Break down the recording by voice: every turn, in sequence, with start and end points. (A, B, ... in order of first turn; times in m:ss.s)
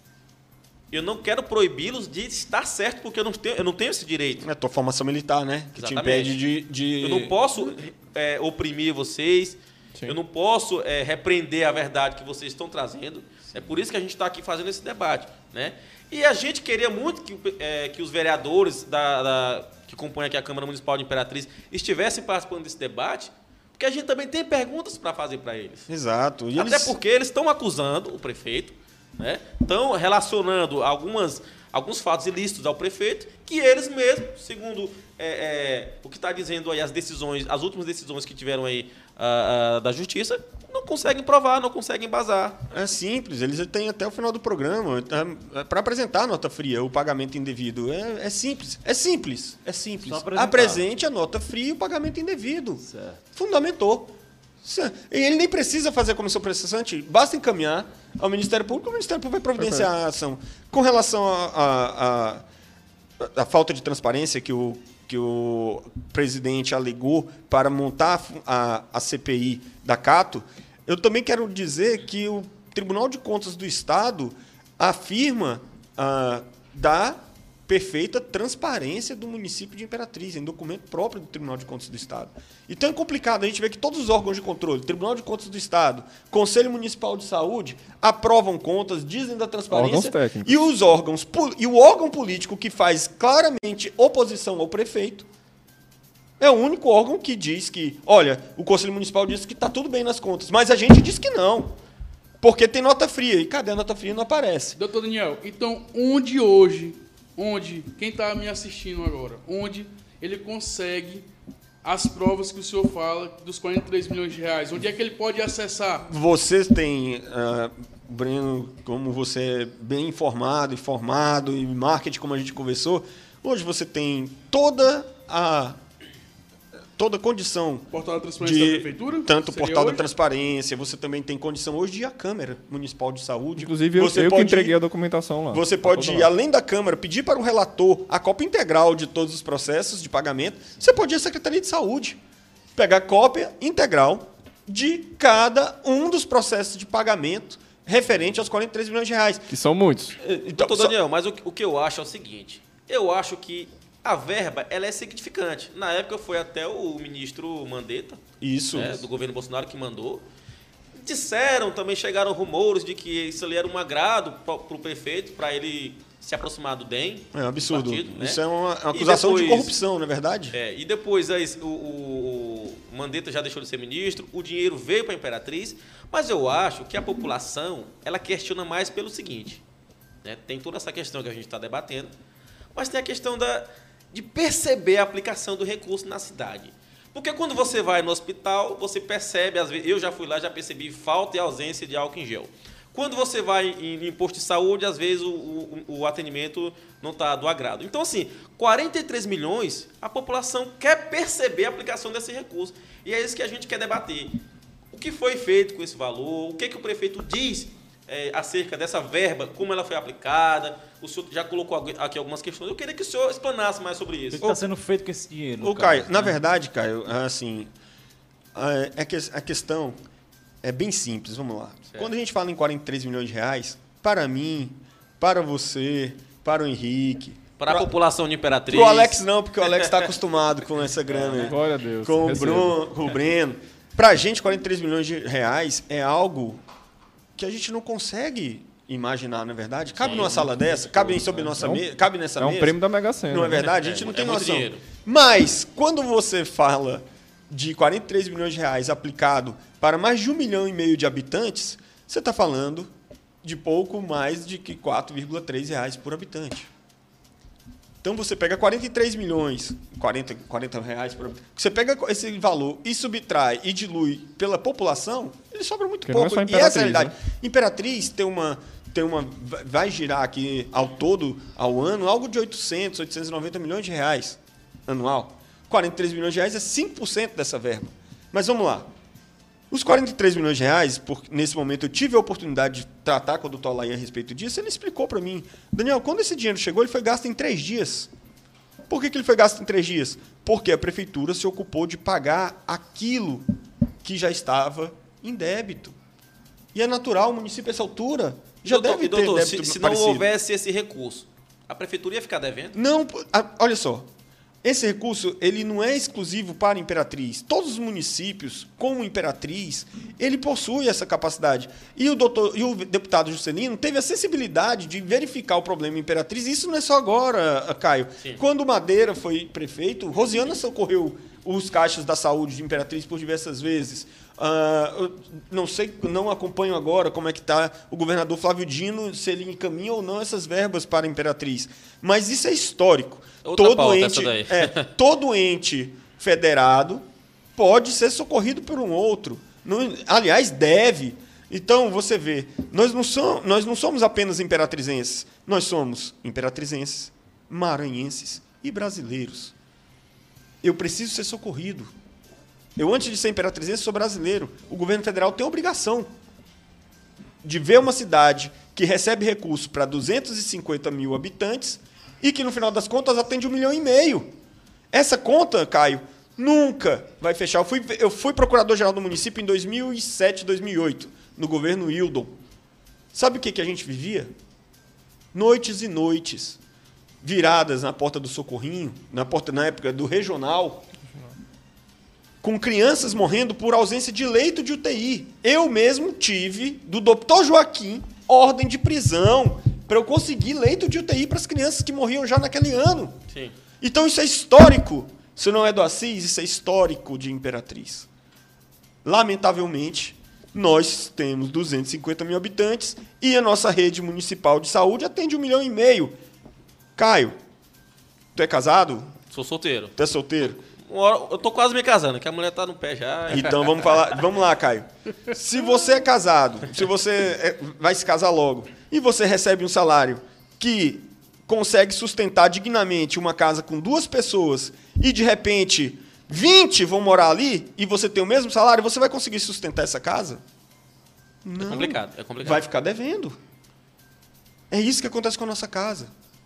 0:00.9-0:04.4 A
0:04.4-0:07.4 B
0:05.8-0:06.4 A
0:07.0-0:25.9 A
0:25.9-0:27.0 B
0:26.6-0:42.6 A
0:42.7-0:52.8 B
0:50.0-0:50.8 C
0:52.8-0:53.2 C
0:53.3-1:02.4 B
0:59.6-0:59.8 D
1:03.2-1:35.3 B
1:29.7-1:30.6 D
1:36.4-1:41.8 B
1:42.4-1:44.8 B
1:44.8-1:51.2 E
1:51.8-1:56.1 E
1:56.1-2:05.8 B
2:07.0-2:14.7 B
2:07.9-2:10.0 E
2:13.6-2:16.3 D
2:15.5-2:22.2 B
2:22.8-2:29.5 B
2:29.5-2:30.2 D
2:30.2-2:31.0 B
2:30.5-2:38.2 A
2:38.4-2:39.0 B
2:38.7-2:40.2 A
2:41.0-2:48.4 A
2:47.3-2:50.6 B
2:48.9-2:49.7 A
2:50.5-2:59.6 A
3:00.2-3:02.1 A
3:02.7-3:24.3 A
3:24.9-3:34.5 A
3:34.3-3:36.4 C
3:35.6-3:37.7 B
3:38.5-3:40.0 B
3:40.6-3:47.9 B
3:47.6-3:49.2 A
3:48.7-3:56.6 B
3:49.7-3:50.0 A
3:51.3-3:52.8 D
3:57.4-4:02.8 B
4:00.0-4:00.7 A
4:01.2-4:01.8 D
4:02.4-4:03.7 D
4:03.3-4:12.9 B
4:03.8-4:04.8 A
4:13.4-4:16.7 B
4:18.0-4:38.9 B
4:26.0-4:27.1 D
4:39.7-4:48.1 B
4:48.9-4:53.5 B
4:54.0-4:56.0 B
4:56.7-5:00.2 B
4:58.6-5:02.7 A
5:02.7-5:04.1 B
5:04.6-5:37.0 B
5:33.4-5:34.9 A
5:37.6-5:49.5 B
5:50.6-5:51.9 B
5:52.8-5:56.1 B
5:57.4-6:04.3 B
6:04.9-6:12.3 B
6:13.1-6:14.3 B
6:15.3-6:16.6 B
6:17.2-6:20.8 B
6:22.4-6:33.2 B
6:33.8-6:38.1 B
6:39.0-6:46.2 B
6:47.0-6:47.3 B
6:48.3-6:49.1 B
6:49.3-6:49.9 A
6:50.0-6:50.6 B
6:50.8-6:54.0 A
6:53.3-7:10.4 B
7:11.4-7:13.4 B
7:11.6-7:12.6 A
7:14.7-7:16.1 B